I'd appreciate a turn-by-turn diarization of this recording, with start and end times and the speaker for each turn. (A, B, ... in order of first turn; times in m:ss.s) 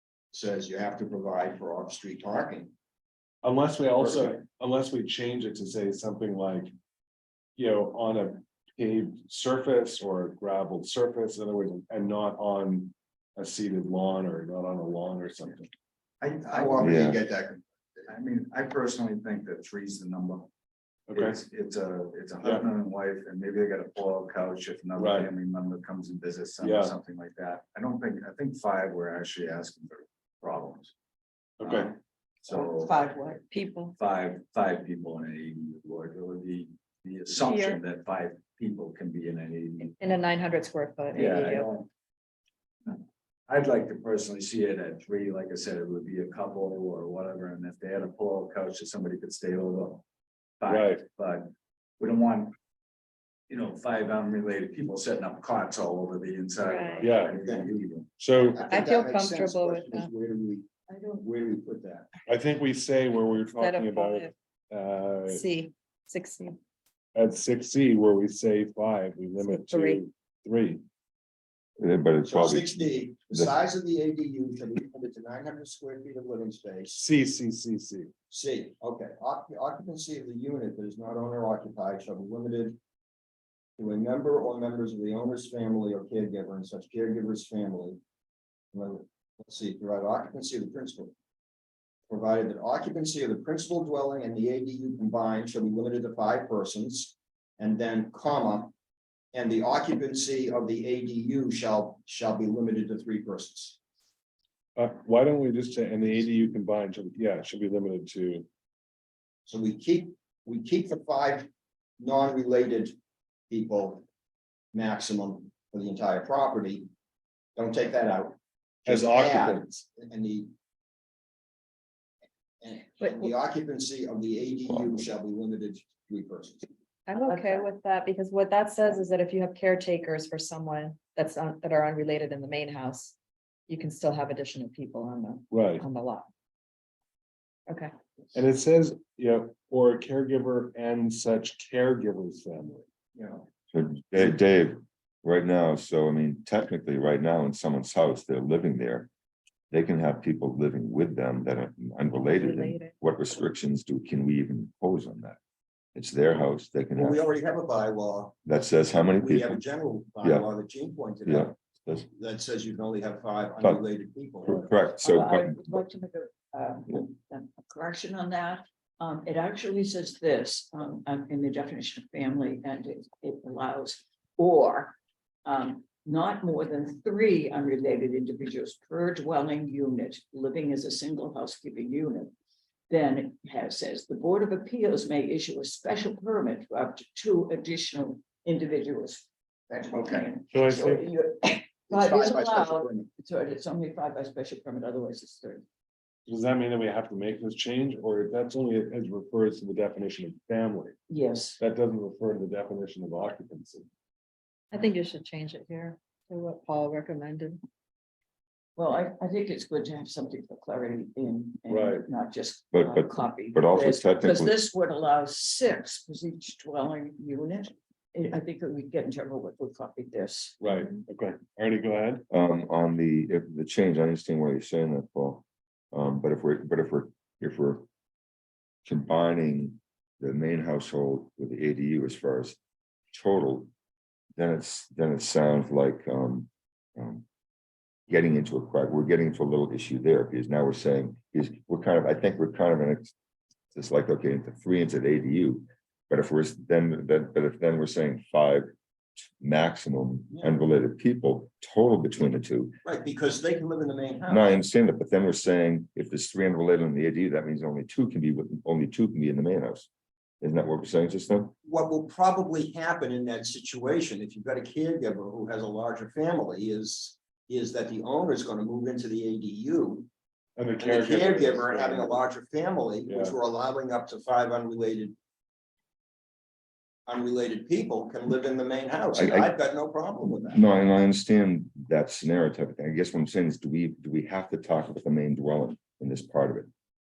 0:00.3-0:02.7 A
0:03.4-0:06.7 B
0:04.0-0:04.3 A
0:07.6-0:15.7 B
0:16.2-0:17.1 C
0:16.4-0:18.0 A
0:16.8-0:17.2 D
0:18.1-0:20.5 C
0:21.1-0:21.4 B
0:21.1-0:30.9 C
0:25.0-0:25.3 B
0:26.6-0:26.9 B
0:31.6-0:31.9 B
0:31.6-0:31.9 C
0:32.4-0:33.0 C
0:32.5-0:33.4 E
0:33.1-0:34.0 F
0:34.0-0:40.0 C
0:37.4-0:37.8 F
0:39.8-0:41.7 F
0:41.1-0:41.9 C
0:42.9-0:50.0 C
0:50.6-0:52.6 C
0:50.7-0:51.0 B
0:53.5-0:58.1 C
0:56.6-0:57.1 F
0:57.0-0:57.4 B
0:57.4-0:57.7 A
0:58.2-0:58.7 B
0:58.5-1:02.1 A
0:58.6-1:00.1 F
1:00.9-1:01.2 E
1:02.3-1:05.4 B
1:03.4-1:04.3 F
1:05.3-1:06.6 F
1:07.1-1:10.8 B
1:09.4-1:10.0 F
1:11.8-1:13.5 D
1:12.2-1:17.0 A
1:17.0-1:18.1 B
1:18.3-1:22.8 A
1:23.8-1:28.0 A
1:28.7-1:31.1 A
1:32.1-1:38.7 A
1:39.3-1:43.8 A
1:44.8-1:48.4 B
1:49.4-1:51.5 A
1:52.0-1:53.0 A
1:53.5-1:54.0 A
1:54.7-1:56.9 A
1:57.6-2:00.5 A
1:58.9-1:59.7 B
2:02.6-2:06.7 A
2:03.0-2:03.3 F
2:04.7-2:05.0 D
2:07.1-2:13.2 F
2:07.2-2:07.7 E
2:13.7-2:16.3 F
2:15.5-2:15.9 B
2:18.3-2:22.8 B
2:23.2-2:23.5 A
2:23.7-2:29.1 D
2:29.7-2:35.4 D
2:32.2-2:32.9 F
2:35.9-2:37.2 D
2:36.9-2:38.3 A
2:38.4-2:39.6 D
2:39.0-2:44.6 A
2:41.2-2:42.1 D
2:44.4-2:45.6 D
2:45.0-3:02.3 E
3:02.9-3:15.6 E
3:09.7-3:10.2 A
3:10.5-3:11.1 B
3:11.9-3:13.1 A
3:16.3-3:21.0 B
3:21.1-3:21.6 E
3:21.6-3:23.9 B
3:24.7-3:27.6 F
3:28.8-3:40.6 E
3:31.7-3:32.1 B
3:32.7-3:34.6 D
3:40.6-3:42.2 B
3:42.3-3:47.8 D
3:48.8-3:52.6 D
3:53.1-3:53.7 D
3:54.4-3:57.2 D
3:58.1-4:03.1 D
4:03.7-4:08.7 D
4:09.4-4:12.8 D
4:12.8-4:14.6 A
4:14.3-4:19.9 D
4:20.4-4:21.5 D
4:21.6-4:30.1 A
4:30.6-4:32.2 B
4:30.8-4:35.1 A
4:33.1-4:33.4 B
4:37.1-4:40.6 A
4:39.1-4:39.5 D
4:40.5-4:46.7 D